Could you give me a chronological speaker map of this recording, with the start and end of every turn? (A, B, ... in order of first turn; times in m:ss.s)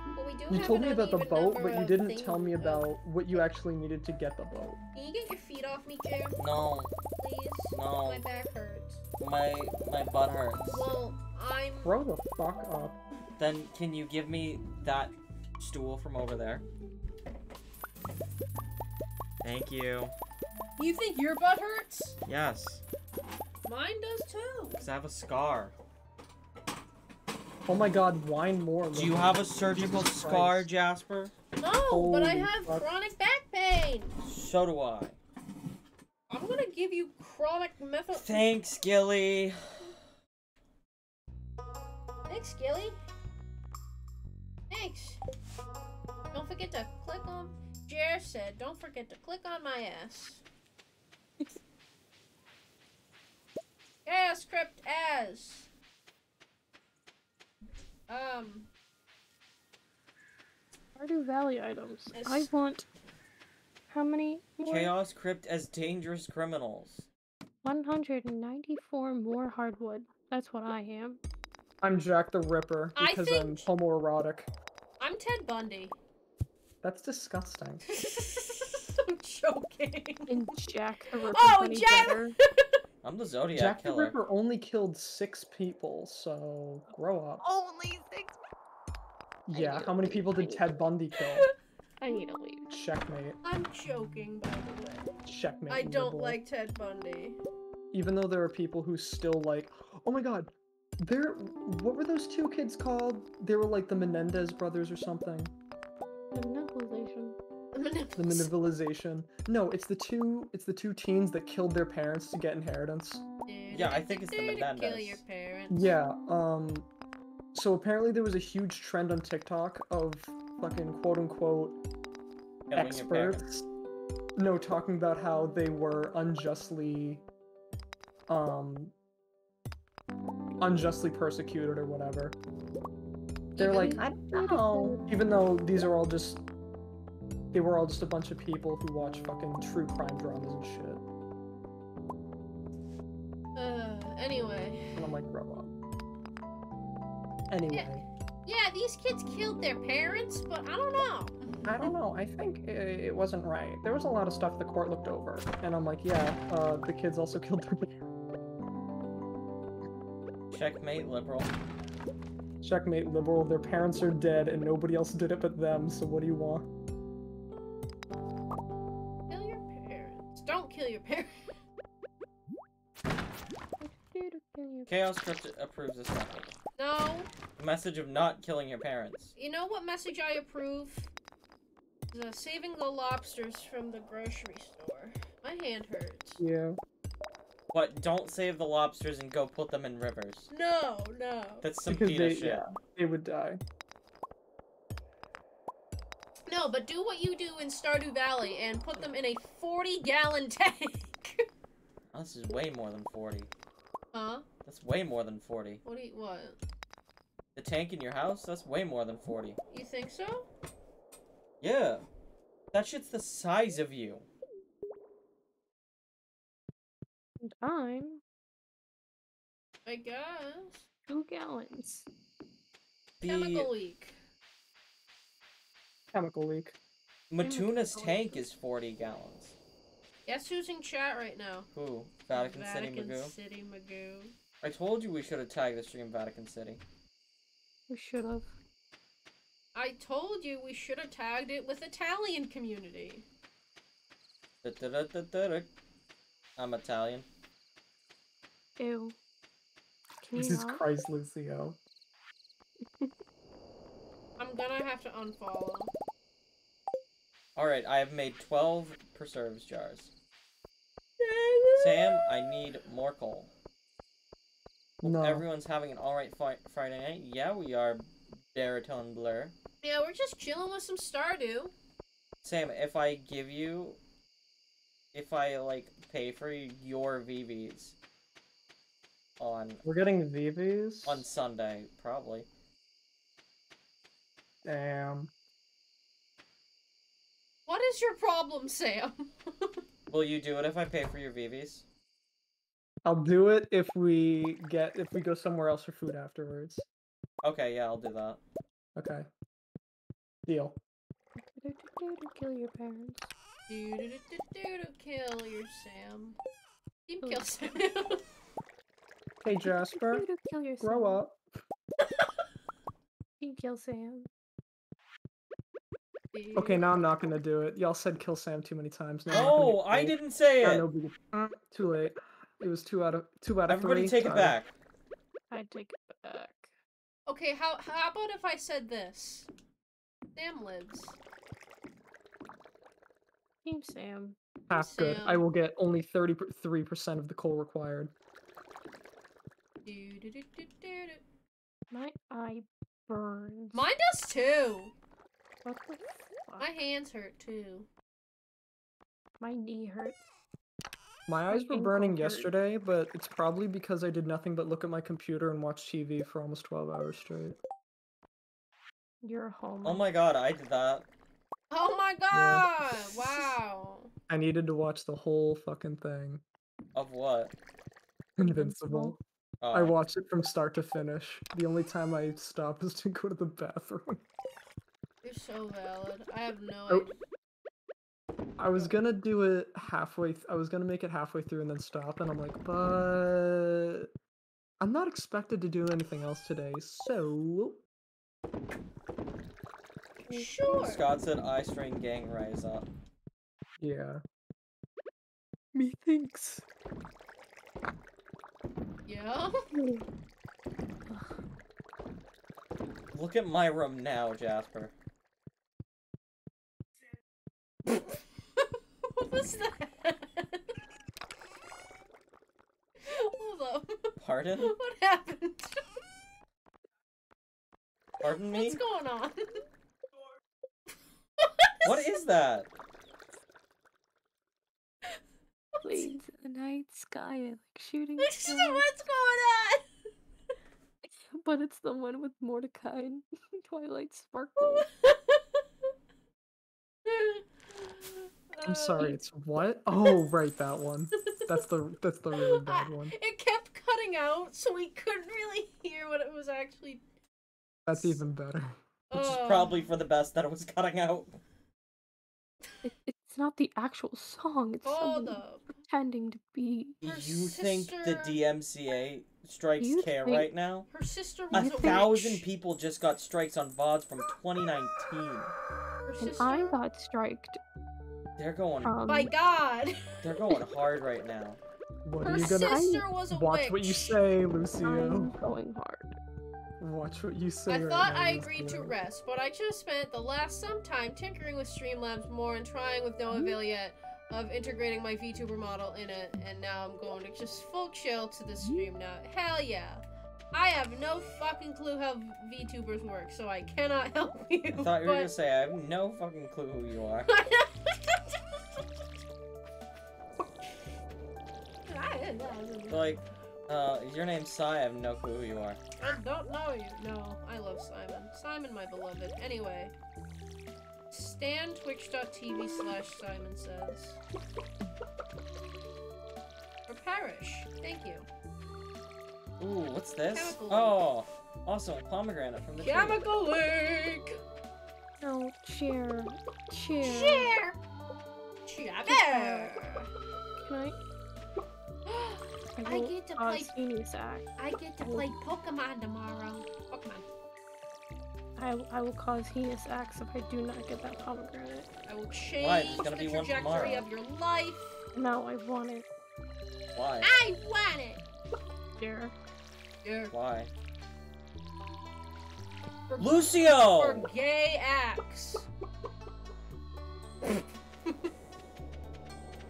0:00.1-0:02.9 A
0:00.5-0:04.8 B
0:04.9-0:06.4 A
0:06.4-0:06.9 C
0:07.2-0:09.0 A
0:07.7-0:08.2 C
0:09.2-0:10.9 C
0:10.7-0:11.9 A
0:11.8-0:13.0 B
0:13.4-0:16.6 C
0:19.4-0:20.1 C
0:20.8-0:22.2 A
0:22.2-0:22.8 C
0:23.6-0:24.8 A
0:24.8-0:25.7 C
0:27.6-0:30.7 B
0:28.9-0:31.3 C
0:31.6-0:34.2 A
0:31.9-0:32.8 B
0:34.2-0:35.2 C
0:36.3-0:38.5 A
0:38.1-0:39.9 C
0:42.3-0:43.0 A
0:44.7-0:45.2 A
0:46.3-0:50.4 A
0:54.0-0:55.7 A
0:58.1-0:58.7 A
1:00.9-1:02.8 D
1:02.1-1:02.5 A
1:03.9-1:04.9 D
1:04.6-1:07.1 C
1:07.6-1:11.2 D
1:11.8-1:14.5 B
1:13.0-1:13.7 A
1:15.0-1:16.0 A
1:16.8-1:17.8 B
1:17.9-1:20.4 A
1:20.3-1:22.3 D
1:21.3-1:22.7 A
1:23.0-1:24.2 C
1:23.5-1:27.4 B
1:27.4-1:28.3 A
1:29.5-1:31.5 B
1:29.5-1:30.6 D
1:32.0-1:32.7 D
1:32.7-1:33.4 B
1:33.4-1:35.1 A
1:35.2-1:36.4 B
1:35.7-1:37.4 A
1:37.9-1:45.5 B
1:46.3-1:47.4 D
1:47.7-1:48.5 A
1:48.2-1:53.2 B
1:53.4-1:55.9 A
1:53.7-1:55.2 C
1:55.7-1:56.9 B
1:57.5-2:01.8 B
2:02.7-2:03.5 C
2:02.7-2:03.6 B
2:04.4-2:07.2 B
2:08.3-2:08.9 B
2:10.6-2:12.4 B
2:13.5-2:16.4 B
2:13.6-2:15.1 D
2:17.5-2:21.0 B
2:23.5-2:25.0 A
2:25.0-2:25.7 B
2:27.5-2:28.0 B
2:28.4-2:31.9 A
2:31.6-2:37.9 B
2:40.5-2:41.5 C
2:42.6-2:46.7 B
2:49.3-2:51.3 A
2:53.8-2:54.9 D
2:54.9-2:56.5 C
2:56.8-2:57.3 A
2:57.6-2:59.3 C
2:59.4-3:01.1 A
3:02.1-3:06.4 A
3:06.4-3:06.8 B
3:07.7-3:10.5 C
3:10.5-3:11.6 A
3:11.6-3:12.6 C
3:11.9-3:13.6 B
3:16.5-3:21.4 A
3:22.1-3:23.5 C
3:24.1-3:24.4 A
3:24.6-3:25.8 C
3:25.8-3:26.6 A
3:27.6-3:29.6 C
3:29.7-3:30.5 A
3:31.6-3:32.0 C
3:32.7-3:34.3 C
3:37.4-3:38.2 D
3:39.8-3:40.8 A
3:41.1-3:42.1 D
3:43.2-3:43.7 C
3:43.3-3:44.2 A
3:46.1-3:46.8 B
3:47.3-3:49.6 C
3:47.4-3:48.4 D
3:50.2-3:51.7 A
3:51.7-3:53.3 C
3:52.3-3:54.4 A
3:54.6-3:56.8 C
3:57.9-3:58.5 D
3:59.7-4:03.2 A
4:04.6-4:05.7 C
4:06.6-4:07.2 C
4:08.8-4:09.2 D
4:10.2-4:10.8 D
4:10.3-4:11.8 B
4:14.4-4:15.9 A
4:17.6-4:20.1 C
4:21.2-4:22.3 A
4:21.7-4:23.5 C
4:25.0-4:29.6 C
4:25.0-4:25.4 B
4:29.8-4:31.7 A
4:32.4-4:34.0 C
4:35.1-4:38.0 C
4:39.4-4:39.8 C
4:39.8-4:41.2 B
4:41.0-4:42.5 C
4:44.6-4:45.3 B
4:47.6-4:49.8 A
4:50.1-4:51.8 C
4:53.0-4:56.8 B
4:57.4-4:58.4 C
4:59.0-4:59.3 B
5:00.4-5:00.8 B
5:01.5-5:03.3 D
5:03.7-5:06.4 A
5:07.1-5:08.2 A
5:09.4-5:10.3 B
5:10.0-5:11.2 D
5:10.8-5:11.4 B
5:13.4-5:14.3 D
5:16.3-5:16.9 A
5:16.5-5:24.6 B
5:19.3-5:20.8 C
5:23.7-5:24.7 C
5:25.5-5:26.7 D
5:27.3-5:29.5 A
5:30.3-5:31.2 A
5:33.6-5:34.4 D
5:34.7-5:38.1 B
5:34.7-5:35.4 A
5:39.8-5:41.2 A
5:41.9-5:43.8 D
5:43.7-5:44.9 A
5:45.6-5:46.7 D
5:46.6-5:47.9 A
5:49.4-5:50.2 D
5:51.3-5:57.6 B
5:51.5-5:52.5 D
5:59.2-6:00.0 D
5:59.8-6:01.1 C
6:01.7-6:04.1 A
6:02.3-6:02.7 B
6:04.3-6:06.4 B
6:06.9-6:07.5 C
6:08.4-6:09.2 B
6:08.4-6:09.2 D
6:09.6-6:09.9 C
6:09.7-6:14.2 B
6:15.2-6:17.1 A
6:18.6-6:24.1 B
6:24.8-6:27.8 B
6:30.3-6:31.0 A
6:30.6-6:32.8 C
6:33.8-6:34.2 B
6:35.7-6:36.6 B
6:39.1-6:39.6 A
6:39.7-6:40.0 D
6:43.1-6:44.9 C
6:48.6-6:50.7 A
6:53.0-6:55.8 A
6:54.2-6:54.7 C
6:58.2-6:58.8 C
6:58.5-6:59.6 A
7:01.4-7:01.9 A
7:01.8-7:02.7 C
7:05.8-7:06.2 A
7:05.8-7:08.8 D
7:08.2-7:09.8 A
7:11.2-7:14.9 D
7:14.6-7:15.4 A
7:17.0-7:19.1 A
7:18.6-7:23.2 B
7:21.3-7:21.6 A
7:22.3-7:27.0 A
7:27.8-7:28.8 B
7:29.1-7:29.8 A
7:29.1-7:31.4 C
7:32.8-7:37.2 D
7:34.8-7:35.8 A
7:37.0-7:40.9 C
7:37.1-7:38.4 A
7:39.8-7:40.5 D
7:40.9-7:42.3 A
7:41.5-7:45.5 C
7:41.5-7:42.4 D
7:46.0-7:46.8 A
7:46.2-7:47.6 D
7:48.4-7:49.0 C
7:48.8-7:49.3 D
7:49.1-7:50.1 A
7:50.2-7:51.6 C
7:52.0-7:55.3 B
7:52.2-7:54.2 A
7:54.8-7:56.2 D
7:56.8-7:58.9 B
7:57.7-8:15.3 A
8:14.7-8:17.3 C
8:17.3-8:18.6 A
8:21.9-8:23.1 A
8:22.9-8:25.8 C
8:26.0-8:29.9 A
8:31.1-8:34.2 A
8:36.9-8:38.3 A
8:39.6-8:43.2 C
8:40.3-8:41.0 A
8:42.8-8:44.4 A
8:45.2-8:47.5 D
8:47.0-8:47.8 A
8:48.6-8:50.1 A
8:49.1-8:49.7 D
8:50.6-8:51.0 D
8:52.0-8:53.7 A
8:52.7-8:54.5 D
8:54.6-8:57.2 A
8:55.0-8:55.3 D
8:58.6-9:01.9 D
9:02.1-9:05.0 A
9:02.6-9:04.1 C
9:05.1-9:06.0 D
9:06.9-9:07.3 C
9:07.2-9:08.2 A
9:09.0-9:09.3 D
9:10.0-9:10.3 A
9:10.3-9:10.7 C
9:13.1-9:15.7 A
9:13.2-9:14.2 C